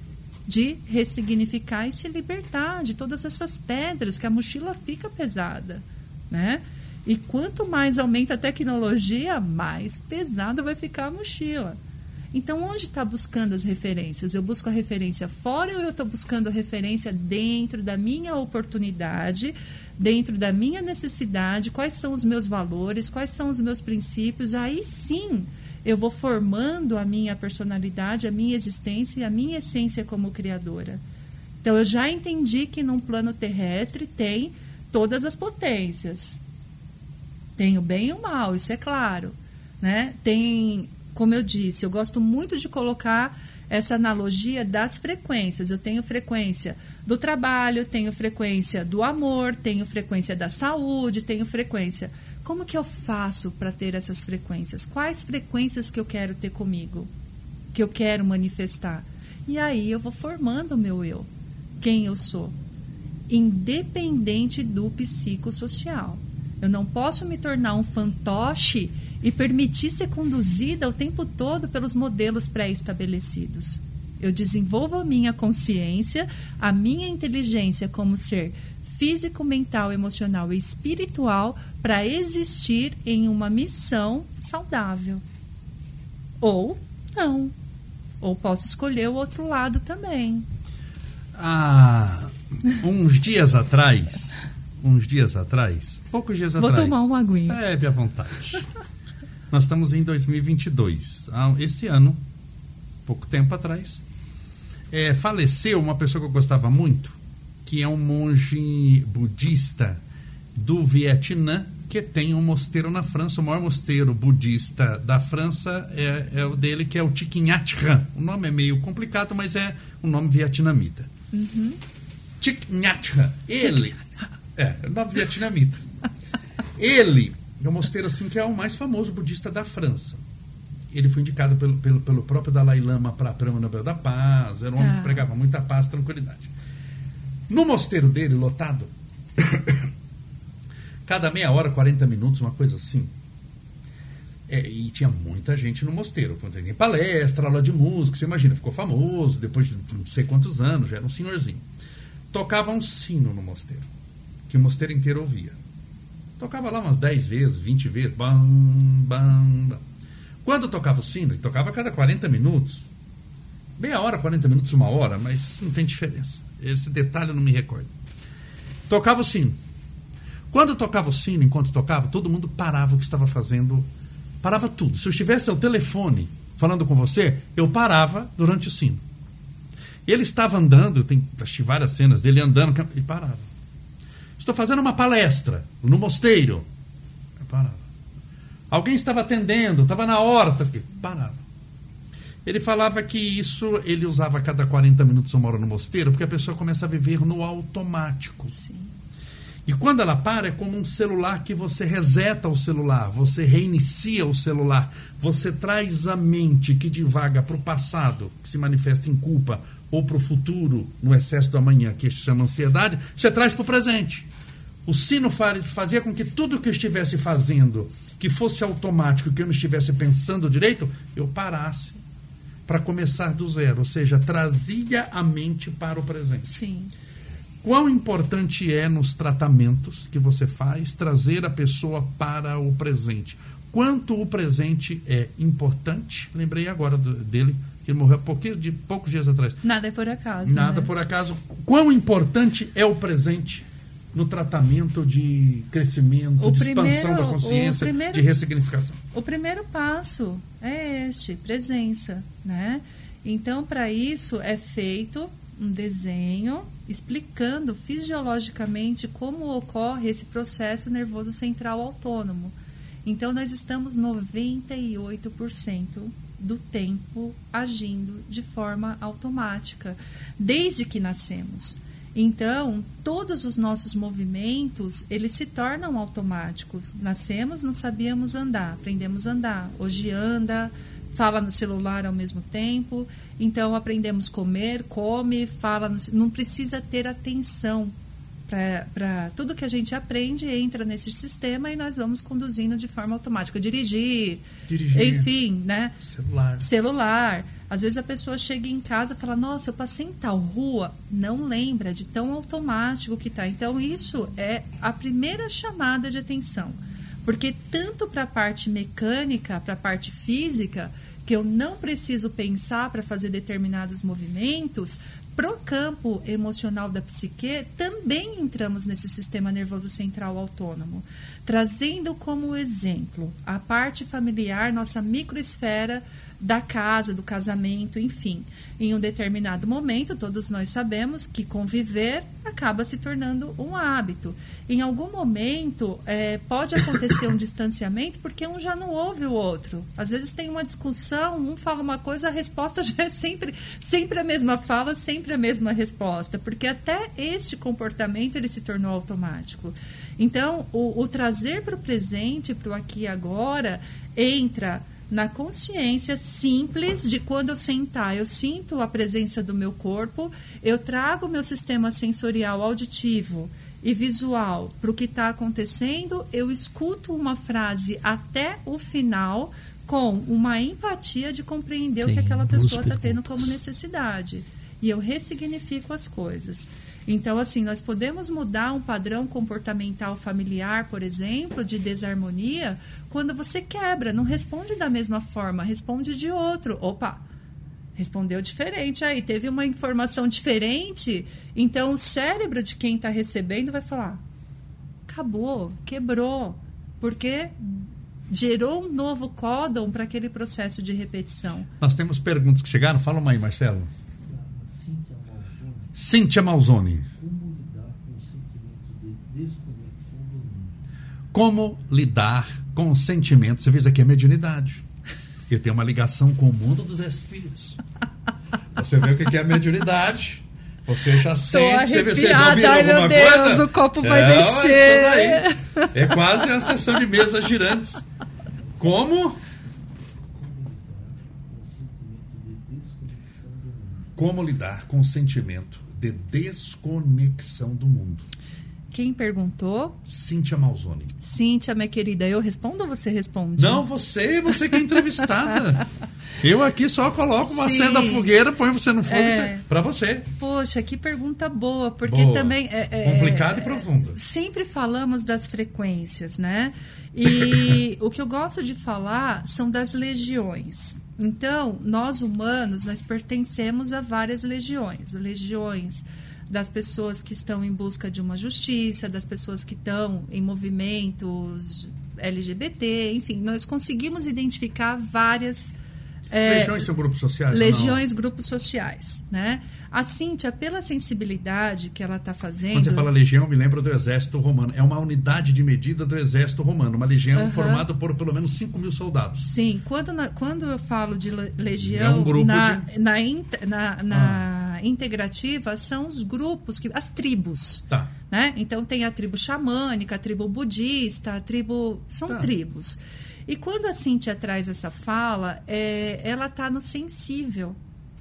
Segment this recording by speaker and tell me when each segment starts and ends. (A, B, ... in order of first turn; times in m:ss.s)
0:00.5-0:11.8 A
0:12.3-0:31.0 A
0:31.6-0:36.4 A
0:37.6-0:57.1 A
0:57.7-1:01.3 A
1:01.8-1:02.5 A
1:03.3-1:25.2 A
1:26.4-1:27.5 A
1:28.2-1:30.4 A
1:31.3-1:38.6 B
1:36.6-1:37.6 A
1:39.5-1:42.2 B
1:43.0-1:44.0 B
1:44.9-1:50.0 B
1:50.6-2:01.1 B
2:01.3-2:01.8 A
2:02.4-2:05.8 B
2:06.8-2:10.2 B
2:10.9-2:16.5 B
2:14.8-2:15.2 A
2:17.5-2:19.9 B
2:21.0-2:23.1 B
2:24.5-2:31.6 B
2:32.3-2:33.9 B
2:34.5-2:35.6 B
2:36.4-2:39.8 B
2:40.4-2:42.9 B
2:43.8-2:47.9 B
2:48.9-2:49.6 B
2:50.5-2:53.9 B
2:54.4-2:59.0 B
3:00.0-3:03.5 B
3:04.4-3:06.6 B
3:07.4-3:07.8 B
3:08.7-3:11.4 B
3:12.4-3:18.5 B
3:18.5-3:18.9 A
3:19.7-3:34.3 B
3:34.8-3:42.0 B
3:42.7-3:46.6 B
3:46.5-3:46.9 A
3:47.6-3:59.6 B
3:59.6-4:00.9 A
4:00.4-4:09.0 B
4:06.4-4:08.2 A
4:09.1-4:47.9 A
4:48.5-4:56.0 A
4:54.7-4:55.3 B
4:56.0-4:56.6 B
4:56.6-6:27.2 A
6:28.0-6:34.2 A
6:35.1-6:41.7 A
6:41.8-6:43.9 B
6:44.2-6:46.0 C
6:46.0-6:47.1 B
6:47.1-6:50.8 C
6:51.3-6:54.8 B
6:55.5-6:57.8 B
6:58.8-7:08.0 B
7:01.4-7:06.4 A
7:08.8-7:09.4 B
7:10.3-7:14.2 C
7:14.2-7:18.2 B
7:18.9-7:20.0 A
7:20.1-7:21.1 B
7:21.2-7:23.8 A
7:23.6-7:25.9 B
7:26.4-7:30.3 B
7:27.5-7:28.3 A
7:29.1-7:29.6 A
7:30.4-7:55.8 A
7:32.0-7:34.2 B
7:56.3-7:56.8 A
7:56.4-7:58.0 B
7:57.5-8:03.1 A
8:02.7-8:09.5 B
8:07.3-8:07.8 A
8:09.4-8:27.8 A
8:11.8-8:12.8 B
8:14.1-8:14.4 B